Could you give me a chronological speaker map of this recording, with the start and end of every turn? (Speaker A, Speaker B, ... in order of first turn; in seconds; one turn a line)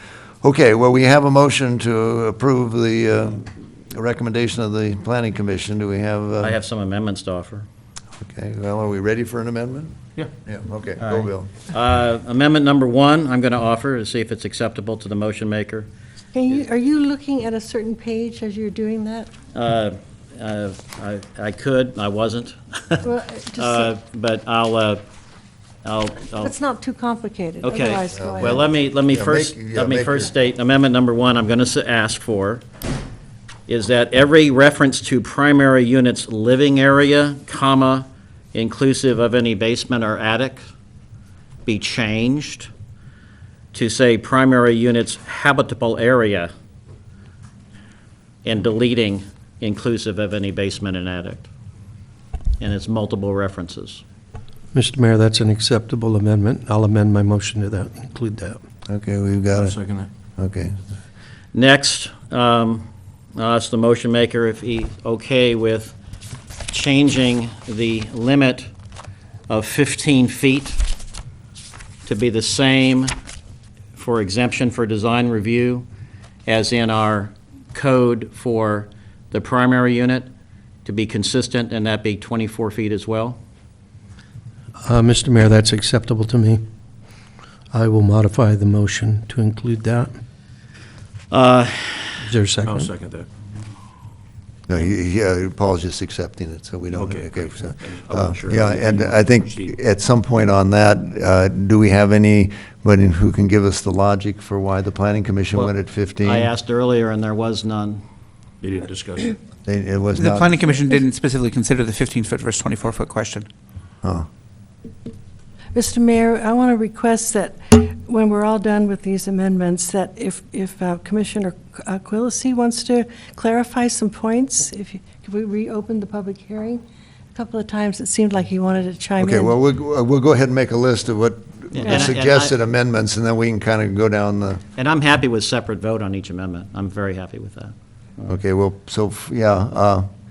Speaker A: 0.4-6.6
Speaker B: 6.4-7.7
Speaker A: 8.2-11.5
Speaker B: 11.0-15.9
Speaker C: 16.3-19.3
Speaker B: 19.5-25.0
Speaker C: 23.0-23.9
Speaker B: 25.8-26.5
Speaker C: 26.4-28.6
Speaker B: 27.6-32.6
Speaker A: 28.1-30.3
Speaker B: 33.7-40.6
Speaker B: 41.7-42.7
Speaker B: 43.7-46.5
Speaker B: 48.5-51.5
Speaker B: 52.6-54.0
Speaker D: 54.7-58.6
Speaker A: 58.9-59.8
Speaker E: 59.6-60.1
Speaker A: 60.4-60.8
Speaker B: 61.5-66.0
Speaker B: 66.7-68.7
Speaker B: 69.5-70.8
Speaker B: 72.1-73.1
Speaker B: 74.0-75.9
Speaker B: 76.5-80.3
Speaker B: 80.8-83.4
Speaker D: 84.8-86.6
Speaker D: 87.7-90.1
Speaker B: 91.3-92.2
Speaker D: 92.2-92.9
Speaker E: 92.6-93.3
Speaker A: 94.7-106.5
Speaker E: 96.9-99.8
Speaker B: 106.2-108.0
Speaker E: 108.6-109.4
Speaker A: 109.7-110.5
Speaker F: 110.2-113.5
Speaker C: 115.7-126.8
Speaker C: 127.3-129.5
Speaker A: 129.2-134.6
Speaker B: 131.7-132.5
Speaker B: 134.8-138.3
Speaker A: 138.3-140.1